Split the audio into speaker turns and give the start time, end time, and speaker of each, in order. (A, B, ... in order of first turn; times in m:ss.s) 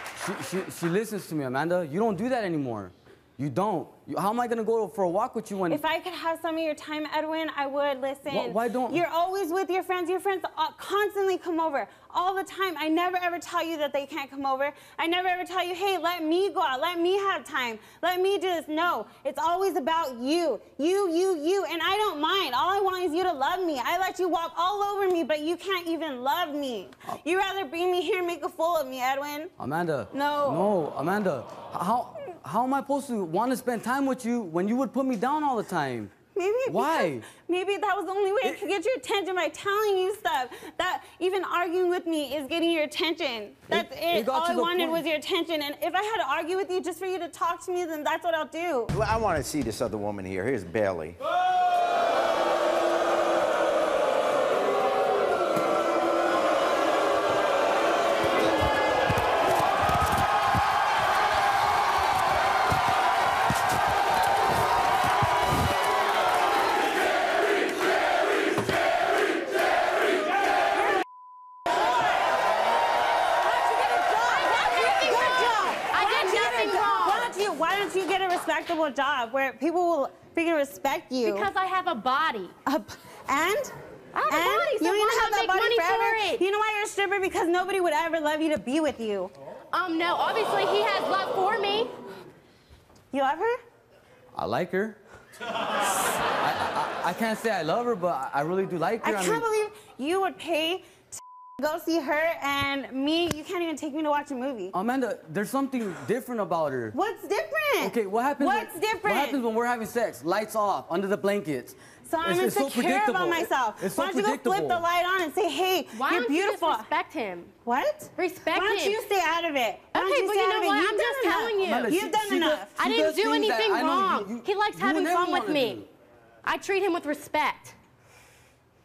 0:00.2-0:05.8 A
0:05.7-0:29.5 B
0:08.3-0:09.0 A
0:29.6-0:36.1 A
0:30.1-0:30.7 B
0:36.3-0:48.9 B
0:36.6-0:37.3 A
0:43.7-0:45.0 A
0:48.9-0:51.2 C
1:11.7-1:12.1 B
1:13.4-1:21.5 B
1:14.2-1:17.3 D
1:21.2-1:22.5 D
1:22.6-1:23.7 B
1:24.1-1:26.4 D
1:24.3-1:29.3 B
1:29.7-1:31.9 D
1:33.1-1:33.6 B
1:34.3-1:35.0 A
1:36.4-1:39.4 A
1:39.0-1:44.7 B
1:44.7-1:47.0 A
1:46.9-1:49.4 B
1:47.8-1:54.8 A
1:52.1-1:56.9 B
1:55.9-1:57.5 D
1:57.6-2:02.7 B
1:58.2-1:59.0 D
1:59.9-2:01.9 D
2:01.6-2:05.8 A
2:02.8-2:05.8 D
2:06.4-2:07.8 D